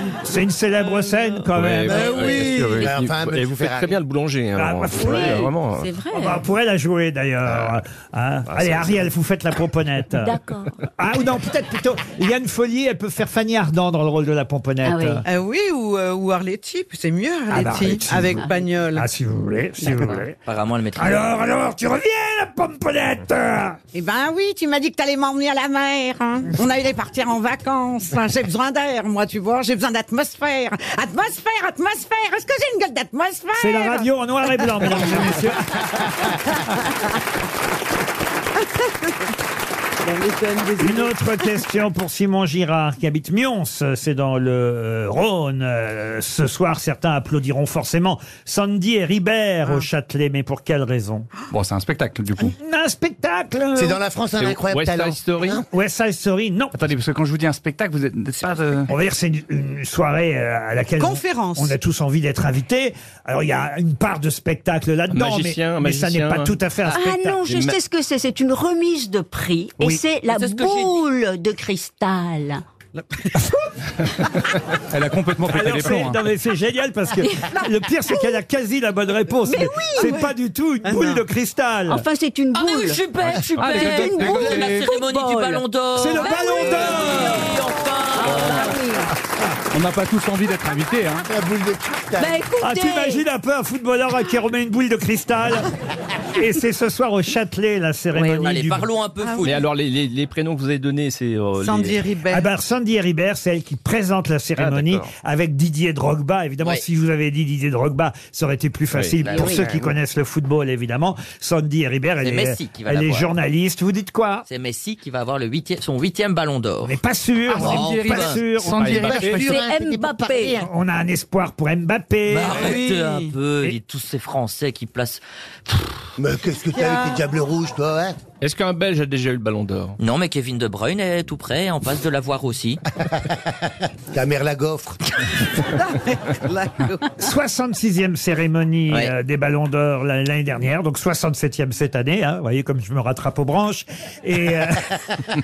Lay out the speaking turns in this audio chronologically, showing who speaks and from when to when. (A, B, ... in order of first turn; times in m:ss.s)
0:00.2-0:02.6 A
0:01.5-0:05.9 B
0:01.8-0:04.0 C
0:04.6-0:05.5 A
0:05.0-0:06.4 D
0:06.1-0:10.4 A
0:08.5-0:09.1 B
0:10.1-0:10.8 D
0:11.0-0:15.2 A
0:14.8-0:15.2 D
0:15.2-0:19.1 E
0:17.5-0:20.4 A
0:18.4-0:18.7 D
0:20.4-0:21.4 F
0:21.0-0:23.8 A
0:23.9-0:35.3 E
0:33.6-0:36.3 A
0:40.0-0:41.5 E
0:40.8-0:51.3 A
0:51.5-0:52.6 G
0:52.4-0:54.0 A
0:53.8-0:55.6 C
0:54.4-0:55.6 B
0:55.7-0:56.8 A
0:56.8-0:58.9 G
0:58.9-1:07.4 A
1:01.0-1:01.8 E
1:05.1-1:06.5 B
1:06.9-1:12.6 D
1:07.4-1:07.8 B
1:10.3-1:11.0 F
1:13.0-1:13.4 E
1:14.9-1:16.2 G
1:15.5-1:22.1 A
1:19.4-1:20.2 D
1:20.0-1:20.3 E
1:20.8-1:21.2 E
1:21.9-1:25.6 D
1:22.5-1:28.8 F
1:23.6-1:24.9 G
1:25.9-1:27.6 A
1:26.2-1:27.5 D
1:28.1-1:29.1 D
1:29.7-1:31.3 G
1:31.3-1:32.4 C
1:32.2-1:33.2 D
1:32.6-1:35.7 A
1:36.4-1:38.9 A
1:38.1-1:39.6 F
1:39.4-1:42.0 B
1:41.6-1:42.5 E
1:42.3-1:54.4 A
1:44.6-1:45.1 B
1:48.9-1:49.2 B
1:49.2-1:49.6 F
1:49.3-1:49.6 D
1:52.2-1:53.3 F
1:54.5-1:57.0 F
1:56.8-1:59.2 A
1:57.5-1:58.4 F
1:57.6-1:59.6 G
1:58.8-2:00.7 C
1:58.8-1:59.2 B
1:59.2-2:00.7 D
2:00.6-2:02.8 A
2:02.3-2:05.9 F
2:02.5-2:03.3 E
2:06.2-2:08.2 C
2:06.8-2:07.2 E
2:08.4-2:10.0 B
2:10.0-2:12.8 F
2:14.1-2:15.0 C
2:15.7-2:17.1 E
2:17.2-2:25.0 A